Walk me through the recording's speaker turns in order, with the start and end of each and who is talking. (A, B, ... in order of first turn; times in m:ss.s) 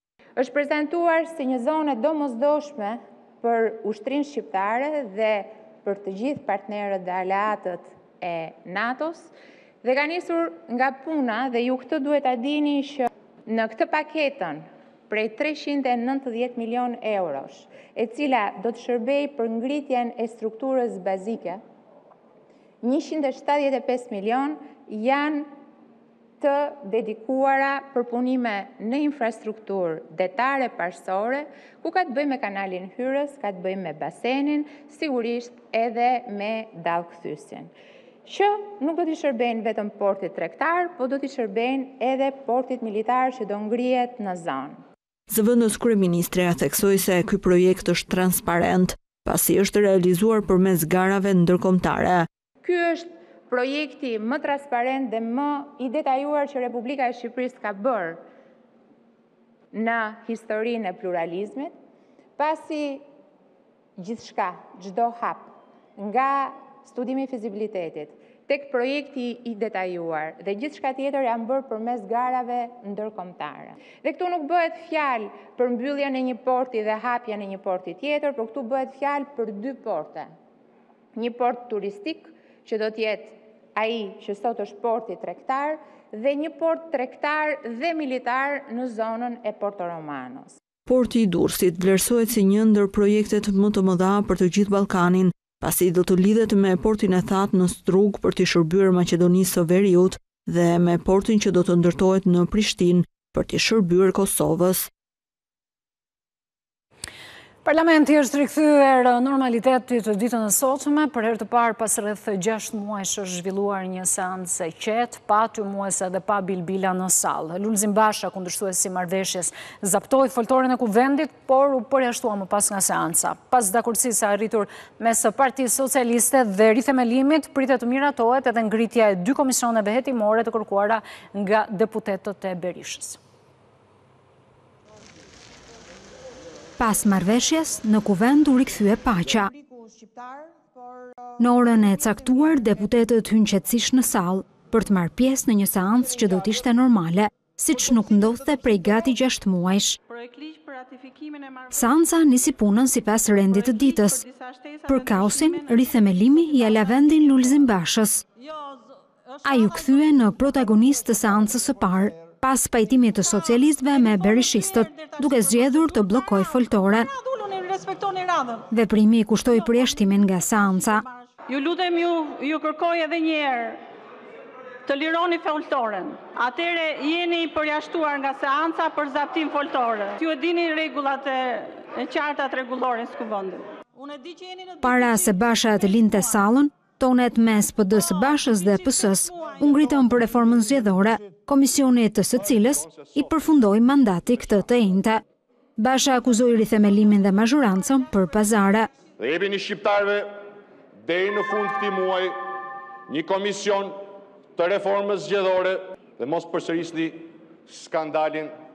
0:00.4-0:09.3 A
0:09.8-0:21.6 A
0:22.8-0:25.5 A
0:26.4-0:37.7 A
0:38.3-0:44.8 A
0:45.3-0:52.3 B
0:52.6-0:58.2 A
0:59.7-1:01.7 A
1:02.4-1:03.0 A
1:04.0-1:20.3 A
1:21.2-1:30.6 A
1:30.9-1:44.9 B
1:47.6-2:13.2 C
2:16.8-2:19.5 D
2:21.4-2:30.0 D
2:30.1-2:31.9 E
2:31.7-2:34.2 D
2:33.3-2:37.0 E
2:34.9-2:38.2 D
2:38.4-2:40.3 E
2:39.4-2:47.1 D
2:43.2-2:48.7 E
2:48.7-2:51.0 D
2:50.8-2:53.8 E
2:54.9-3:06.4 E
3:04.8-3:15.2 D
3:08.0-3:09.9 E
3:15.8-3:18.9 D
3:19.2-3:20.5 F
3:21.1-3:24.1 F
3:24.6-3:28.5 F